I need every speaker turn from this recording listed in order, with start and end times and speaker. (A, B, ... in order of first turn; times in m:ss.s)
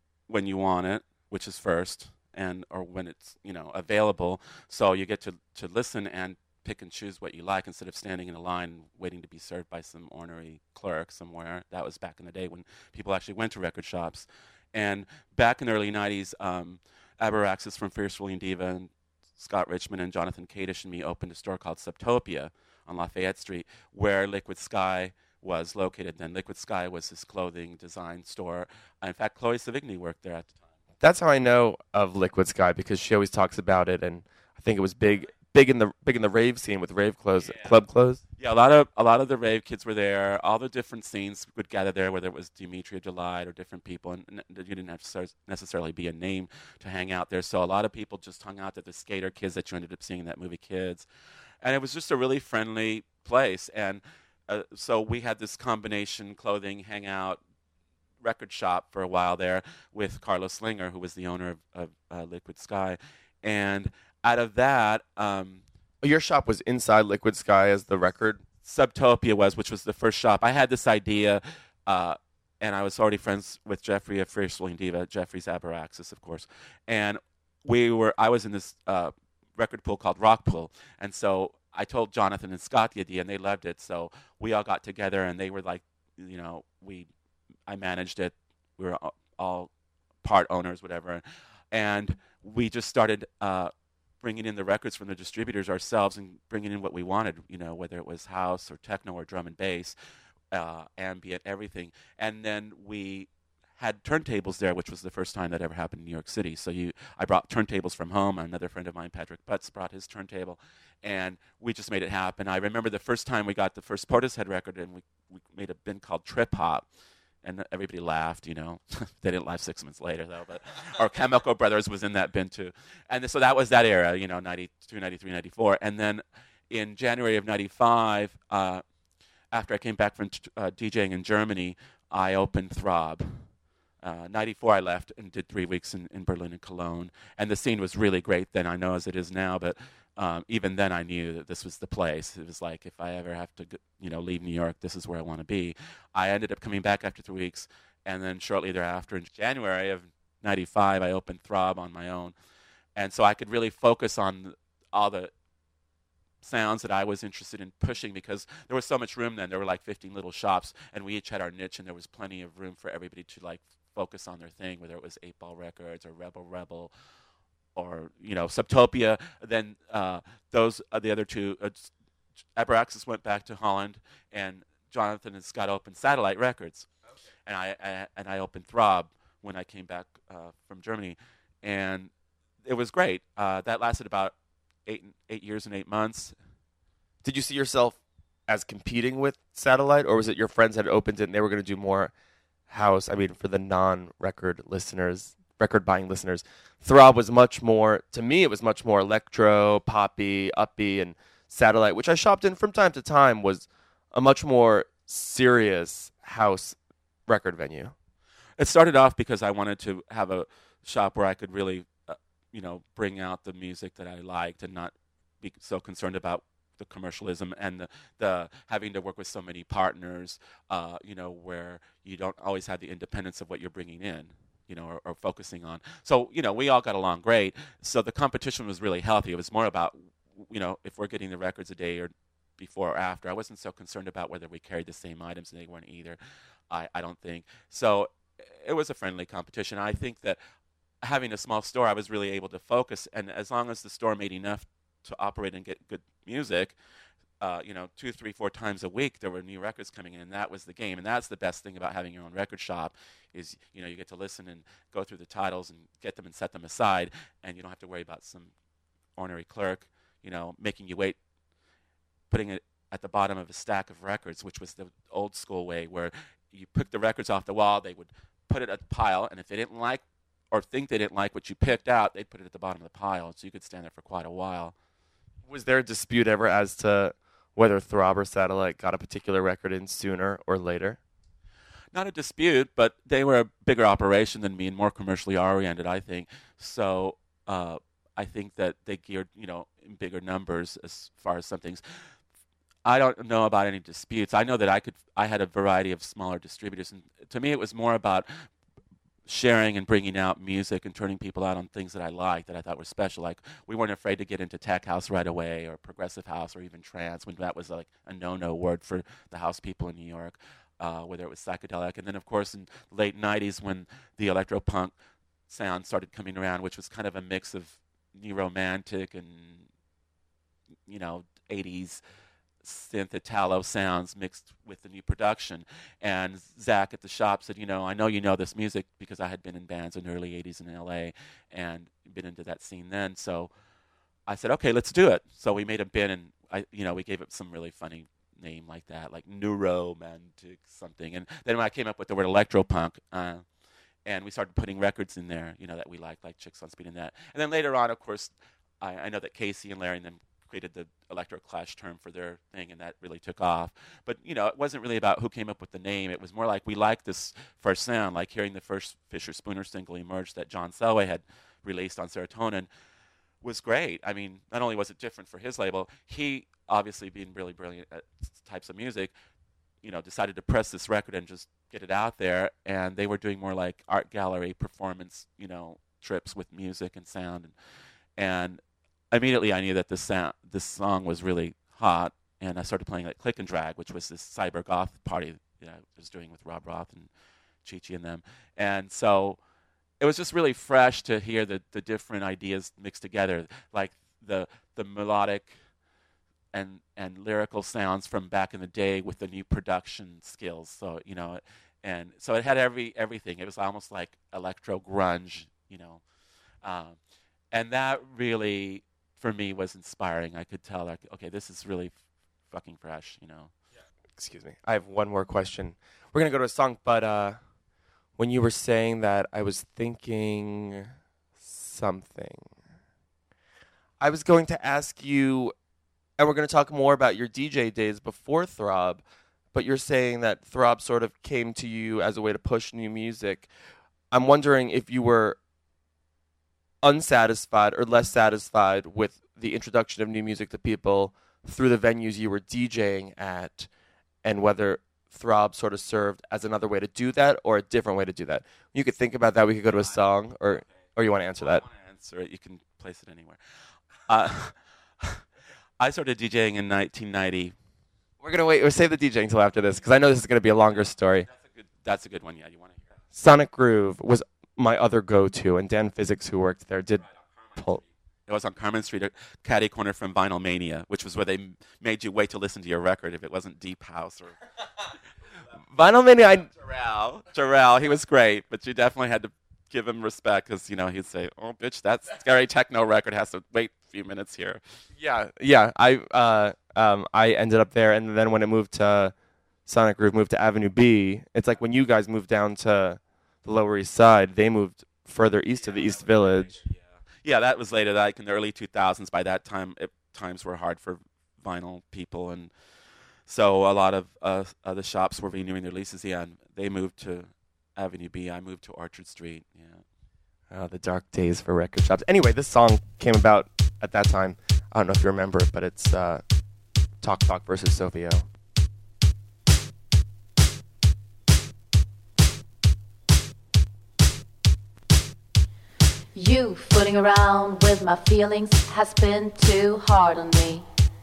0:00.3-0:30.6 A
0:31.0-0:38.2 B
0:37.4-0:37.8 A
0:38.4-0:51.1 A
0:51.6-0:57.4 A
0:58.2-1:05.6 A
1:06.0-1:08.4 B
1:08.6-1:27.1 A
1:27.7-1:29.7 A
1:30.2-1:40.0 A
1:40.5-1:56.8 A
1:57.4-2:08.8 A
2:09.5-2:13.4 A
2:14.0-2:32.4 A
2:33.0-2:35.3 A
2:36.4-2:46.9 A
2:47.7-2:51.9 A
2:52.6-2:56.9 A
2:57.4-3:02.1 A
3:02.6-3:04.4 A
3:04.9-3:06.4 A
3:07.2-3:12.1 B
3:12.7-3:27.9 B
3:28.6-3:56.2 A
3:56.7-4:00.4 A
4:01.0-4:06.8 A
4:07.4-4:18.5 A
4:19.2-4:21.2 A
4:22.3-4:34.7 A
4:35.5-4:41.0 B
4:41.9-4:51.8 A
4:52.8-4:58.3 A
4:59.2-5:14.9 A
5:15.5-5:19.6 A
5:20.9-5:22.0 A
5:22.6-5:33.5 A
5:34.3-5:43.4 A
5:44.1-6:02.7 A
6:03.4-6:09.1 A
6:09.8-6:17.5 A
6:18.2-6:27.1 A
6:27.6-6:29.4 A
6:30.0-6:35.5 A
6:36.5-6:46.0 A
6:46.6-6:47.0 A
6:47.5-6:51.9 A
6:52.5-6:53.5 A
6:54.2-6:57.4 B
6:58.2-7:00.9 B
7:01.4-7:02.5 B
7:04.0-7:05.5 B
7:06.2-7:09.0 B
7:09.5-7:13.5 B
7:14.1-7:15.4 B
7:16.8-7:23.7 B
7:24.2-7:31.6 B
7:31.4-7:33.4 A
7:34.1-7:35.2 A
7:35.8-7:37.6 A
7:38.2-7:41.3 B
7:41.3-7:42.8 A
7:43.1-7:47.0 B
7:47.2-7:47.6 A
7:47.6-7:47.8 B
7:48.3-7:54.3 A
7:55.7-7:56.5 B
7:56.6-8:04.6 A
8:05.0-8:09.1 B
8:09.6-8:16.5 B
8:15.6-8:22.5 A
8:23.3-8:29.8 A
8:30.5-8:36.2 B
8:37.0-8:38.2 B
8:46.1-8:50.6 C